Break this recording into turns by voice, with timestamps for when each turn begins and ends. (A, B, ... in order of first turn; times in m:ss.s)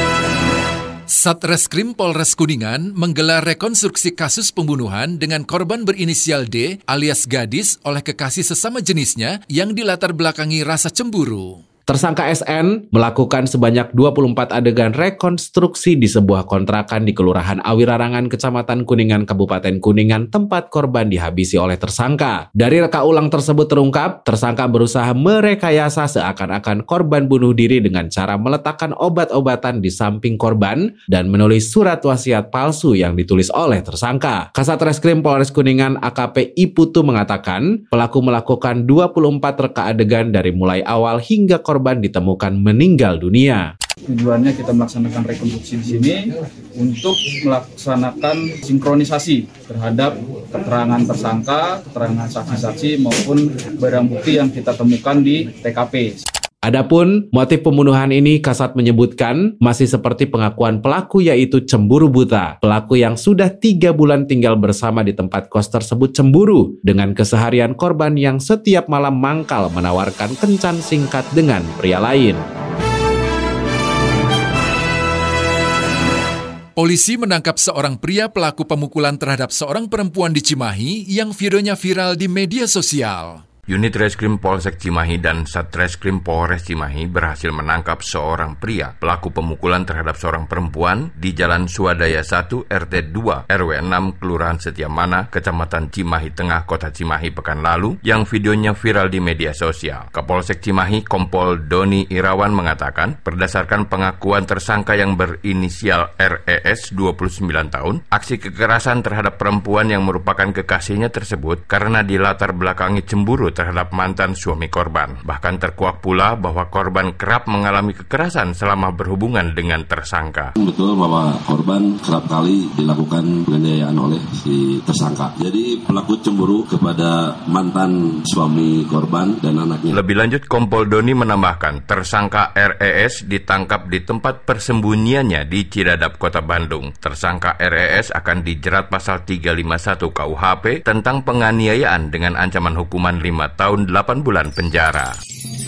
0:01.1-0:11.6 A
0:11.9-0:43.6 B
0:44.1-0:46.2 C
0:46.8-0:56.2 C
0:56.6-1:12.4 B
1:16.8-1:23.4 A
1:23.7-2:00.5 D
2:00.6-2:10.0 E
2:09.9-2:25.1 D